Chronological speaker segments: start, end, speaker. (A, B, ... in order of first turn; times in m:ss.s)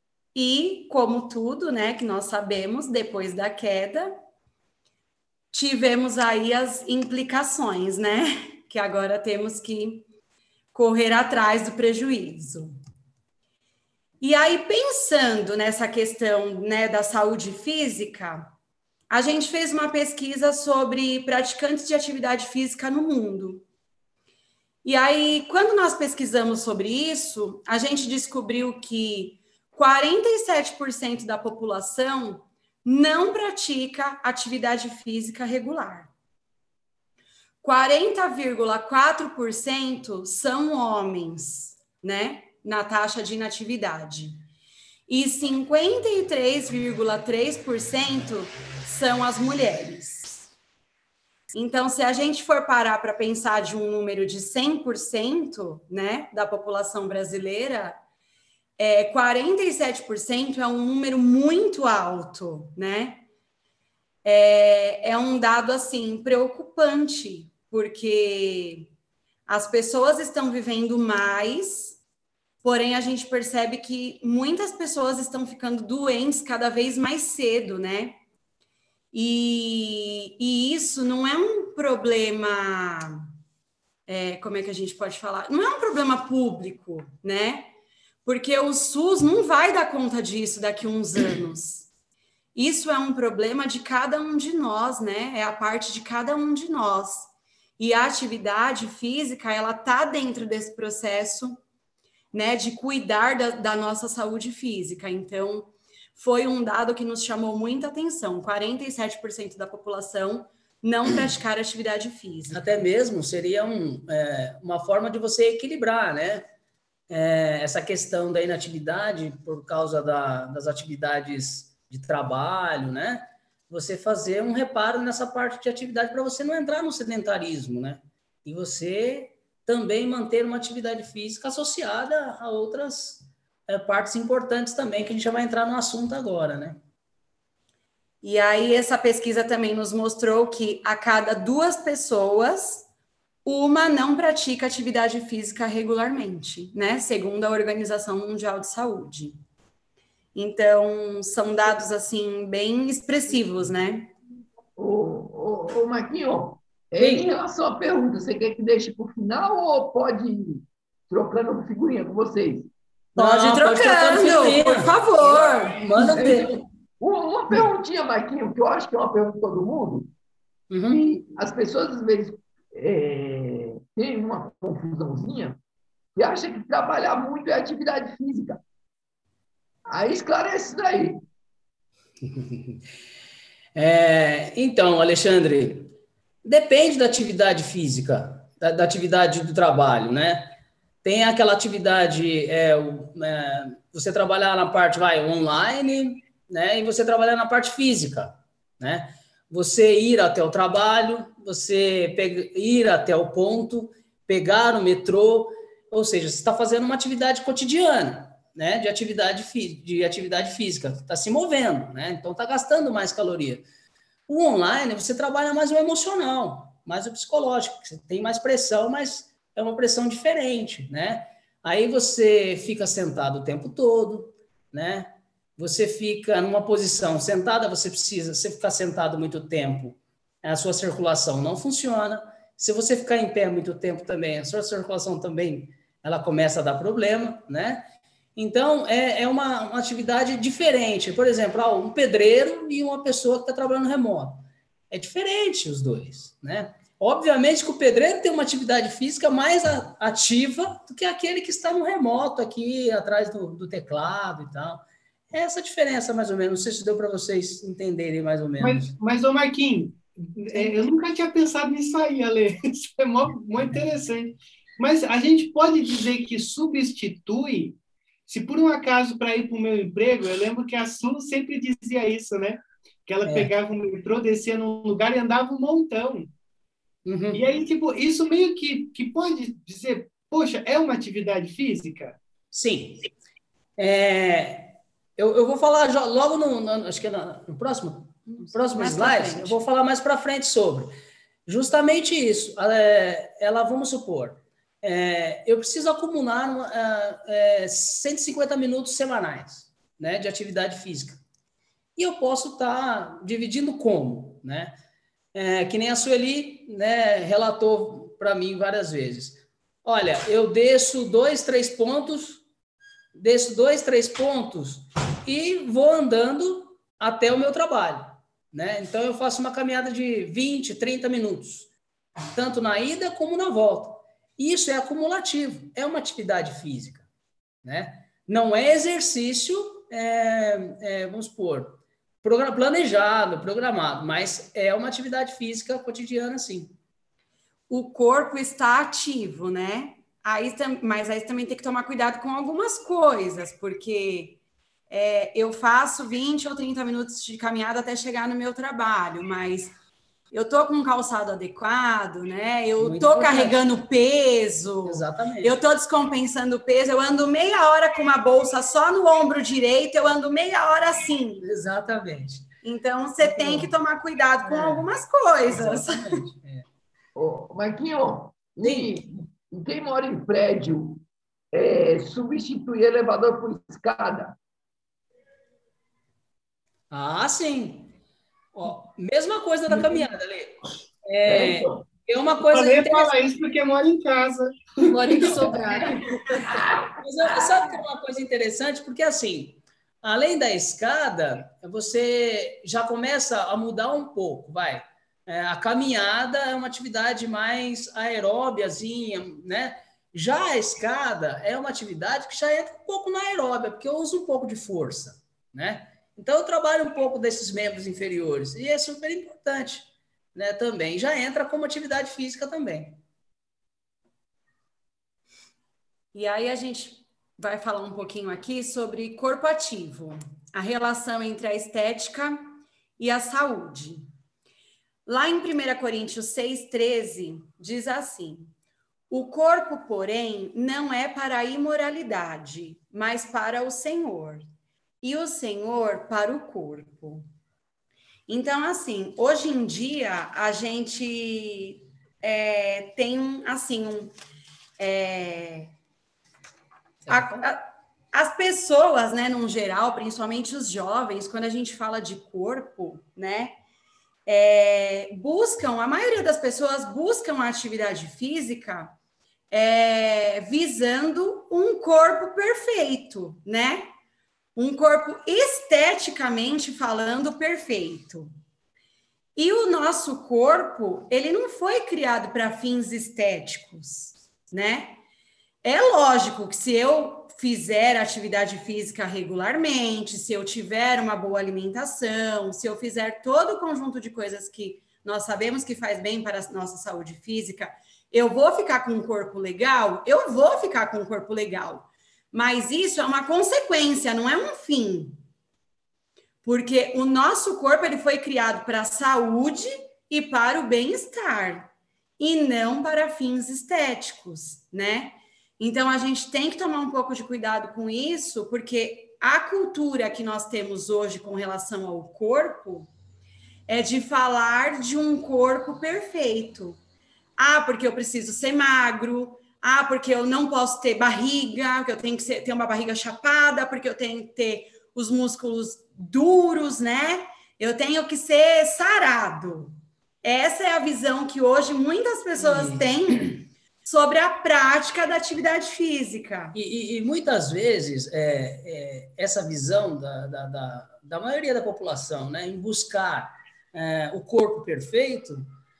0:00.3-0:04.1 A
0:05.5-0:10.0 A
0:10.7-0:12.7 A
0:14.2-0:18.5 A
0:19.1-0:23.6 A
0:24.8-0:36.1 A
0:37.6-0:44.4 A
0:45.1-0:50.5 A
0:51.5-0:58.0 A
0:58.8-1:03.2 A
1:04.2-1:08.9 A
1:09.5-1:12.0 A
1:12.6-1:18.2 A
1:19.1-1:23.2 A
1:24.1-1:27.7 A
1:28.2-1:31.9 A
1:32.5-1:41.6 A
1:42.3-1:52.6 A
1:52.5-1:56.4 B
1:57.1-2:16.8 B
2:18.2-2:22.9 A
2:23.4-2:29.4 A
2:30.3-2:34.1 A
2:34.8-2:42.7 C
2:37.0-2:37.3 B
2:43.2-2:46.6 B
2:43.2-2:45.7 A
2:45.9-2:50.1 C
2:50.7-2:51.0 B
2:50.9-2:55.6 C
2:56.2-2:58.6 C
2:59.9-3:01.2 C
3:02.2-3:02.8 B
3:03.8-3:05.9 B
3:06.4-3:33.6 B
3:34.3-3:57.8 B
3:58.4-4:18.9 B
4:18.6-4:27.8 D
4:28.3-4:36.3 D
4:33.2-4:33.5 B
4:37.0-4:37.4 B
4:37.3-4:42.2 D
4:42.5-4:43.0 B
4:43.8-4:50.9 B
4:48.3-4:49.6 A
4:51.5-5:01.2 B
5:02.0-5:04.7 B
5:05.3-5:12.4 B
5:13.1-5:21.7 B
5:22.3-5:27.0 B
5:27.6-5:36.7 B
5:37.7-5:44.4 A
5:44.9-5:49.7 A
5:50.3-6:01.4 A
5:52.8-5:53.6 B
5:54.8-5:55.6 B
6:01.4-6:02.5 B
6:02.6-6:06.0 A
6:03.2-6:03.7 B
6:04.4-6:04.8 B
6:05.5-6:06.6 B
6:07.2-6:14.4 C
6:08.6-6:08.9 B
6:16.9-6:17.9 B
6:18.5-6:23.2 B
6:19.7-6:20.0 C
6:21.2-6:21.8 C
6:22.5-6:25.9 D
6:25.0-6:25.9 B
6:25.3-6:27.7 C
6:27.0-6:53.0 B
6:56.1-7:04.0 A
7:05.0-7:08.5 A
7:09.1-7:14.5 A
7:15.0-7:17.2 A
7:18.3-7:24.1 A
7:24.8-7:25.7 A
7:27.0-7:27.4 B
7:27.1-7:33.5 A
7:34.2-7:38.9 A
7:39.5-7:43.9 A
7:44.6-7:48.3 A
7:49.4-7:55.0 A
7:55.6-8:15.2 A
8:16.4-8:32.9 A
8:33.7-8:36.8 A
8:37.4-8:56.5 A
8:52.4-8:52.8 B
8:56.5-9:05.4 B